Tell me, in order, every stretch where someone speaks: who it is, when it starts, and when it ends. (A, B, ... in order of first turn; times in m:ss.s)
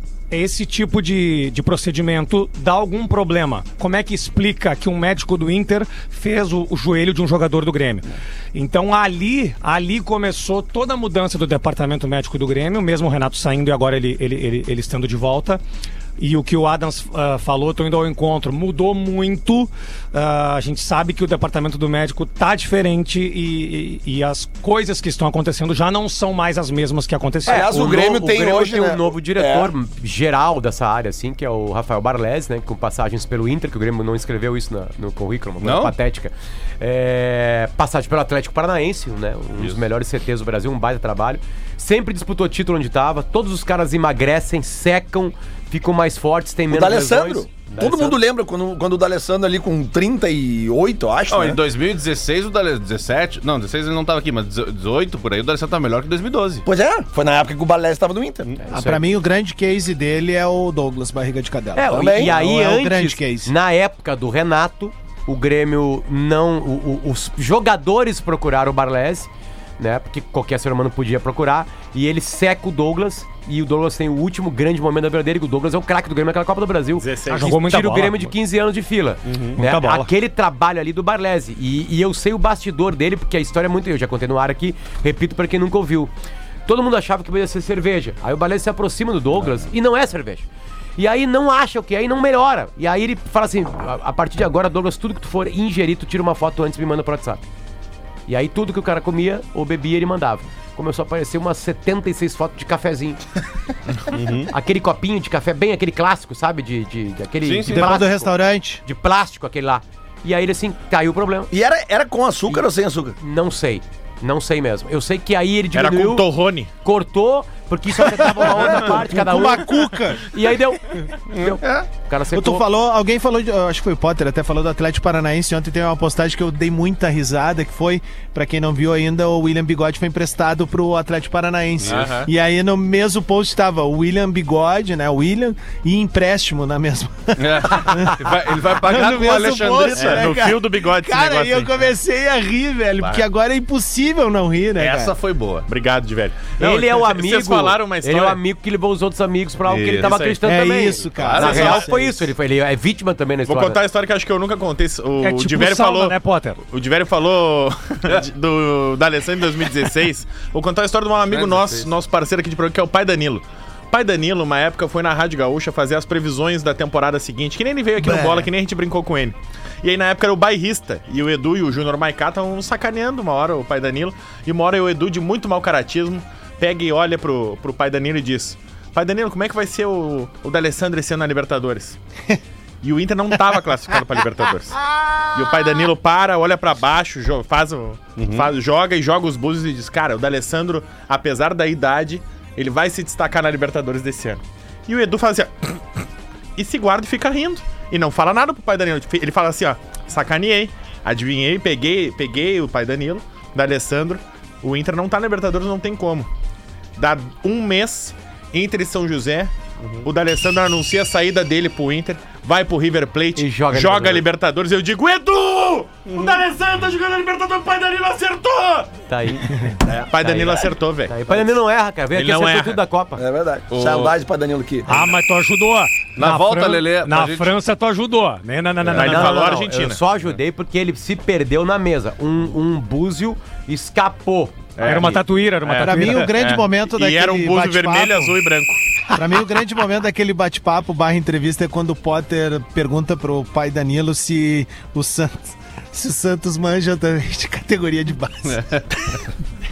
0:00.3-0:15.6 A
0:16.2-0:27.7 A
0:27.5-0:29.7 B
0:27.5-0:48.2 C
0:35.6-0:35.9 D
0:46.7-0:51.6 B
0:51.3-0:56.6 D
0:56.7-0:58.5 B
0:58.6-0:59.1 C
0:58.7-1:03.5 E
1:01.8-1:26.1 C
1:01.9-1:02.4 B
1:17.0-1:17.6 F
1:17.3-1:18.3 A
1:19.3-1:19.6 D
1:19.6-1:20.1 A
1:26.7-1:30.4 C
1:31.0-1:37.4 C
1:38.3-1:43.2 C
1:44.1-1:44.5 D
1:44.5-1:48.3 C
1:47.4-1:48.1 D
1:47.7-1:48.8 E
1:48.8-1:51.5 C
1:51.5-1:53.2 B
1:53.2-1:56.3 C
1:55.7-1:56.7 F
1:56.8-2:02.6 C
1:58.4-2:00.3 E
2:01.3-2:01.9 D
2:02.3-2:25.2 E
2:11.8-2:12.2 D
2:11.9-2:12.3 F
2:17.4-2:20.3 D
2:19.9-2:21.7 F
2:23.0-2:23.3 D
2:24.8-2:25.7 D
2:25.7-2:28.4 F
2:26.6-2:33.8 C
2:29.6-2:30.2 D
2:30.0-2:30.4 F
2:30.4-2:32.2 E
2:31.2-2:31.9 D
2:31.4-2:31.9 F
2:33.5-3:02.0 F
2:35.2-2:36.6 A
2:41.3-2:41.9 D
3:02.8-3:04.8 F
3:04.8-3:05.8 E
3:05.3-3:15.8 F
3:08.2-3:08.5 D
3:16.6-3:26.3 F
3:27.0-3:39.0 F
3:33.4-3:34.2 C
3:36.1-3:36.4 D
3:39.1-3:43.2 C
3:40.1-3:41.5 F
3:42.1-3:42.8 F
3:43.2-3:44.9 B
3:43.7-3:44.1 D
3:44.9-3:49.5 A
3:46.2-3:47.5 D
3:48.8-3:49.2 D
3:49.0-3:50.0 F
3:49.0-3:55.2 C
3:54.8-3:58.8 F
3:54.8-3:56.3 A
3:55.8-3:58.4 E
3:59.1-4:09.2 E
4:08.5-4:09.2 D